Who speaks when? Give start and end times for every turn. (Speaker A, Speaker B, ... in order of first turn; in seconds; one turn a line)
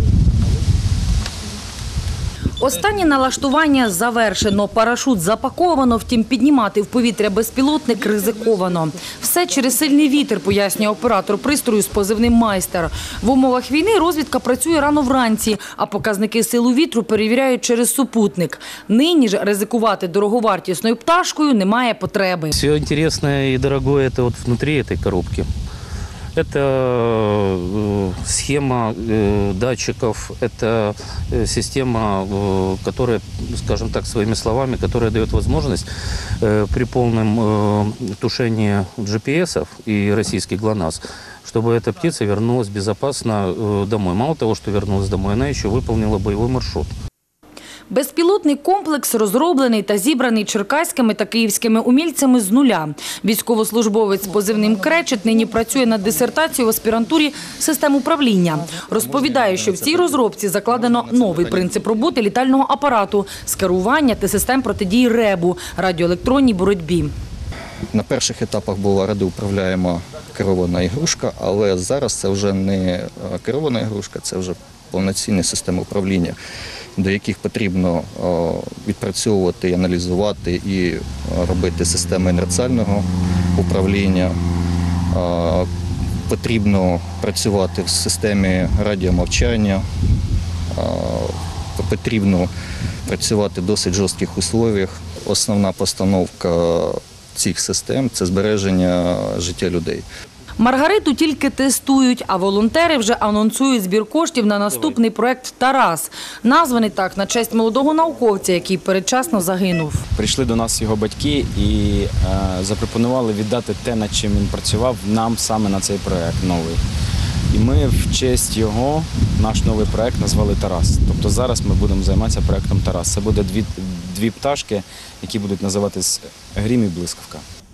Speaker A: 2.6-22.5
Speaker B: 22.5-25.5
Speaker B: 26.3-35.9
Speaker B: 36.4-46.9
Speaker A: 47.9-67.1
Speaker C: 58.9-60.1
Speaker C: 60.7-61.8
Speaker C: 67.9-76.3
Speaker C: 77.0-84.3
Speaker C: 85.1-85.7
Speaker C: 86.3-89.8
Speaker C: 90.7-92.5
Speaker C: 93.0-100.0
Speaker A: 100.6-110.0
Speaker D: 110.1-116.8
Speaker D: 117.5-127.4